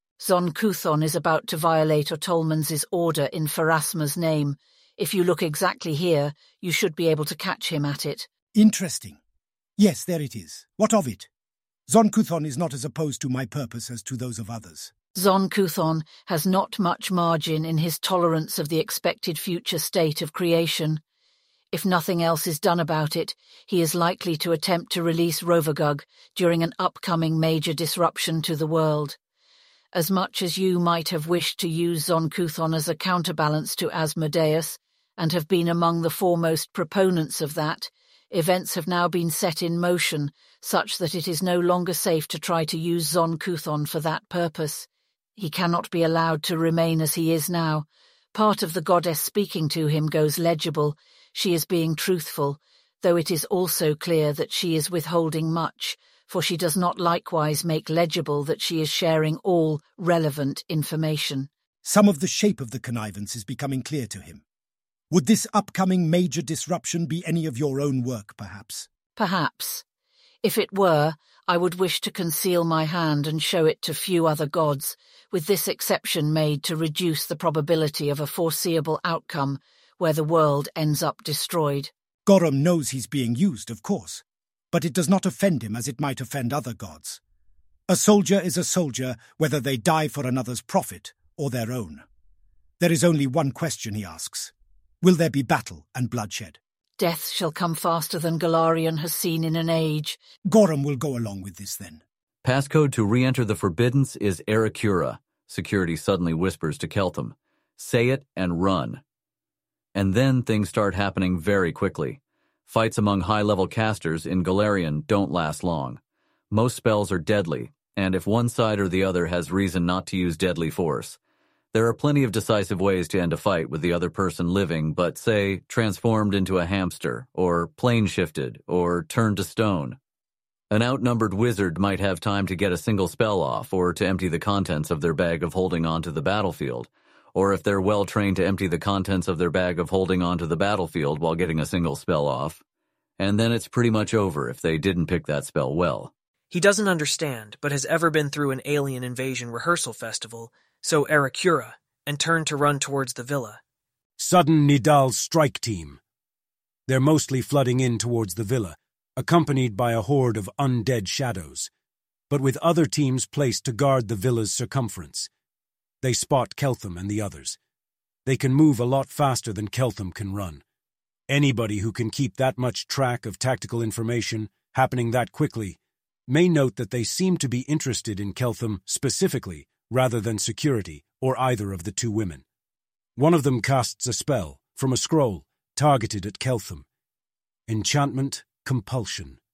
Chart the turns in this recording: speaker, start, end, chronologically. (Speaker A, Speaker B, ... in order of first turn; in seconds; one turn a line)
Speaker A: 0.2-8.3
Speaker B: 8.5-9.2
Speaker B: 9.8-11.3
Speaker B: 11.9-14.9
Speaker A: 15.1-21.0
Speaker A: 21.7-29.2
Speaker A: 29.9-61.5
Speaker B: 61.8-64.4
Speaker B: 65.1-68.9
Speaker A: 69.2-69.8
Speaker A: 70.4-81.9
Speaker B: 82.2-87.2
Speaker B: 87.9-92.0
Speaker B: 92.8-96.6
Speaker A: 97.0-100.2
Speaker B: 100.4-102.0
Speaker C: 102.4-109.0
Speaker C: 109.9-116.0
Speaker C: 116.5-121.2
Speaker C: 121.7-130.0
Speaker C: 130.7-142.6
Speaker C: 143.2-146.1
Speaker D: 146.5-153.6
Speaker E: 154.2-156.0
Speaker E: 156.9-161.7
Speaker E: 162.3-165.3
Speaker E: 166.0-167.6
Speaker E: 168.2-170.6
Speaker E: 171.3-182.4
Speaker E: 183.2-186.8
Speaker E: 187.7-189.4